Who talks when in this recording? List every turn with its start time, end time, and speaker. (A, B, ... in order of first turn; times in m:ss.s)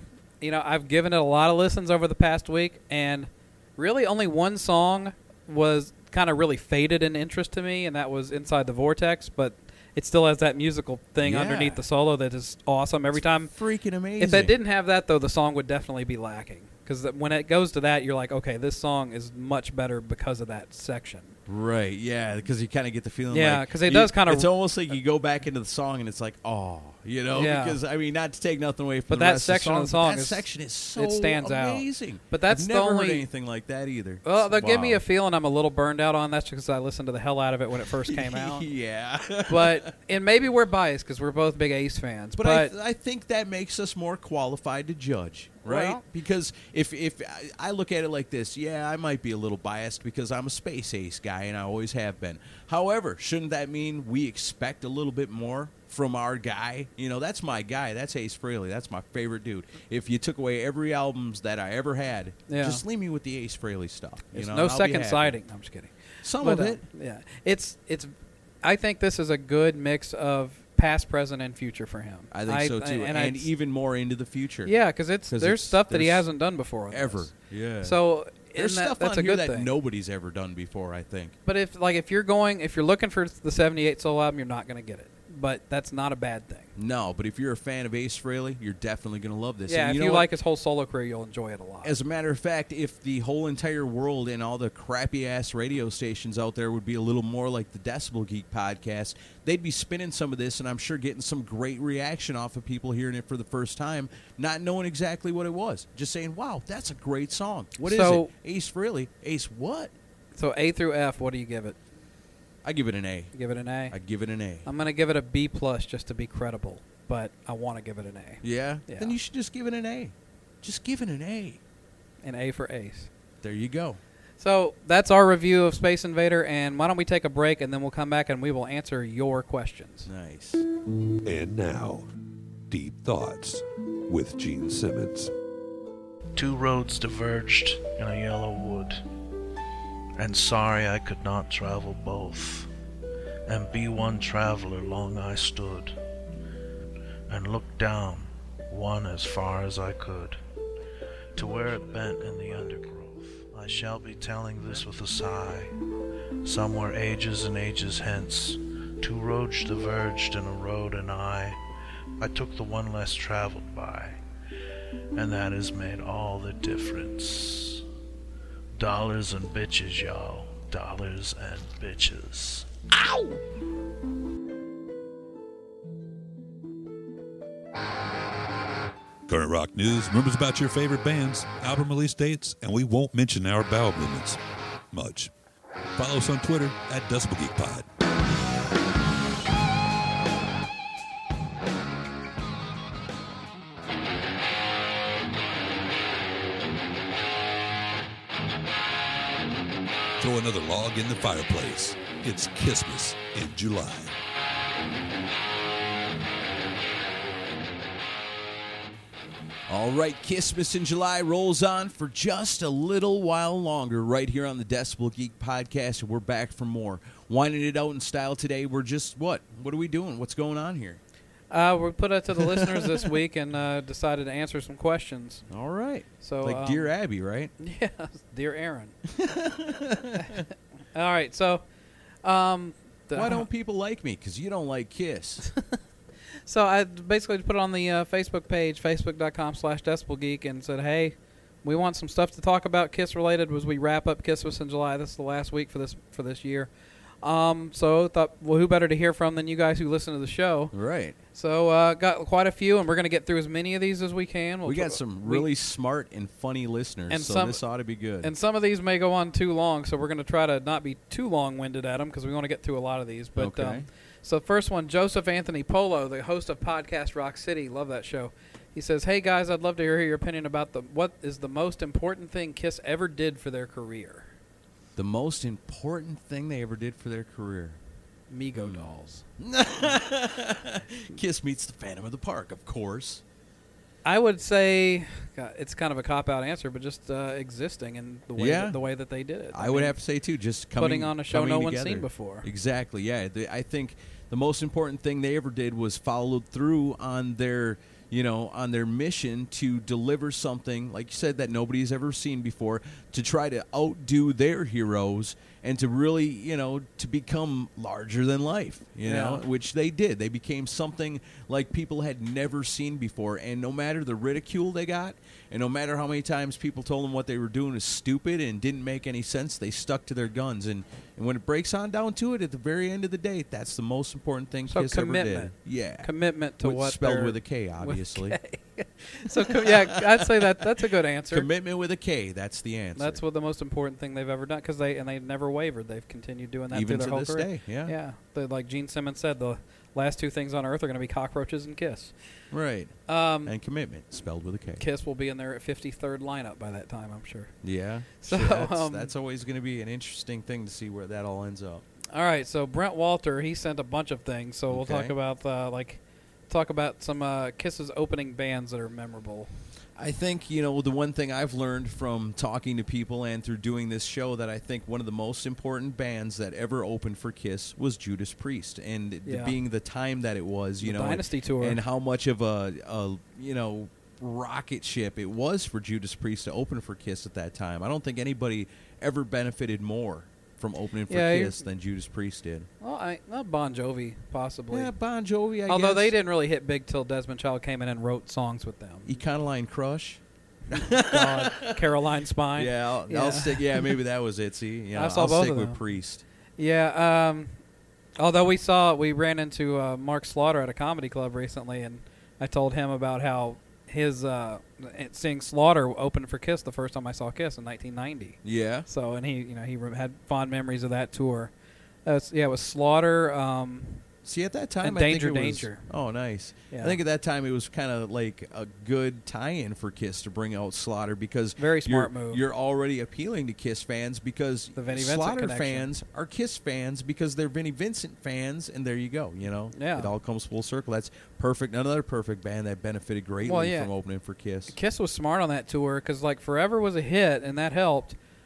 0:00.4-0:13.5 A
0:11.2-0:11.8 B
0:13.1-0:14.5 B
0:14.2-0:21.4 A
0:21.5-0:35.0 B
0:23.3-0:24.5 A
0:27.3-0:27.8 A
0:29.1-0:33.2 A
0:34.2-0:38.7 A
0:38.0-0:39.9 B
0:39.5-0:42.7 A
0:42.4-1:05.4 B
0:45.6-0:46.0 A
1:02.5-1:02.8 A
1:04.3-1:08.1 A
1:06.2-1:06.8 B
1:08.6-1:13.5 A
1:12.3-1:16.3 B
1:14.6-1:17.3 A
1:16.9-1:18.0 B
1:17.8-1:19.7 A
1:18.5-1:21.3 B
1:21.4-1:26.7 A
1:26.8-1:30.3 B
1:29.7-1:32.0 A
1:31.8-1:49.9 B
1:47.8-1:48.3 A
1:50.3-1:51.8 A
1:52.6-1:53.3 B
1:53.3-1:54.0 A
1:53.9-1:54.7 B
1:54.6-1:59.2 A
1:58.4-2:01.6 B
2:02.2-2:03.1 A
2:03.4-2:04.0 B
2:04.4-2:10.1 A
2:10.0-2:10.6 B
2:11.2-2:12.1 C
2:12.7-2:15.3 C
2:16.4-2:19.0 D
2:20.2-2:22.7 D
2:23.5-2:25.9 D
2:27.3-2:30.4 D
2:31.3-2:35.7 D
2:36.4-2:41.6 D
2:42.2-2:44.2 D
2:45.1-2:47.8 D
2:48.8-2:52.7 D
2:59.3-3:04.4 C
3:04.9-3:05.3 C
3:06.0-3:07.8 C
3:20.2-3:24.1 C
3:29.7-3:41.0 B
3:41.5-3:45.4 A
3:42.4-3:43.1 B
3:45.5-3:47.5 B
3:46.2-3:46.9 A
3:47.6-3:48.9 A
3:49.1-3:50.4 B
3:50.2-3:51.6 A
3:52.2-3:53.4 A
3:53.1-3:55.4 B
3:56.4-4:06.7 A
4:07.2-4:10.7 A
4:10.7-4:11.2 B
4:11.3-4:15.5 A
4:14.6-4:18.3 B
4:17.1-4:17.6 A
4:18.2-4:34.3 A
4:23.4-4:23.9 B
4:35.0-4:37.8 B
4:38.3-4:39.2 A
4:38.5-4:43.2 B
4:44.0-4:50.0 A
4:48.4-4:48.8 B
4:49.5-5:28.4 B
4:50.8-4:52.5 A
5:09.0-5:09.4 A
5:24.7-5:31.5 A
5:29.2-5:30.6 B
5:31.3-5:33.2 B
5:33.0-5:42.1 A
5:36.7-5:37.9 B
5:42.5-5:44.8 B
5:43.1-5:43.6 A
5:44.8-5:47.5 A
5:47.6-5:51.8 B
5:48.2-5:49.1 A
5:52.1-5:59.5 A
5:54.7-5:55.1 B
6:00.0-6:22.7 B
6:09.2-6:09.6 A
6:10.8-6:11.8 A
6:21.1-6:21.6 A
6:22.8-6:24.9 A
6:24.7-6:26.2 B
6:25.7-6:29.2 A
6:29.0-6:31.8 B
6:30.7-6:34.0 A
6:32.5-6:36.2 B
6:34.9-6:35.8 A
6:36.6-6:37.6 A
6:38.2-6:51.5 A
6:48.4-6:48.9 B
6:52.0-6:54.0 A
6:54.2-7:14.7 B
6:54.8-6:55.9 A
6:56.7-6:57.0 A
7:01.6-7:02.4 A
7:04.8-7:05.9 A
7:09.7-7:10.1 A
7:13.4-7:13.9 A
7:14.7-7:18.2 A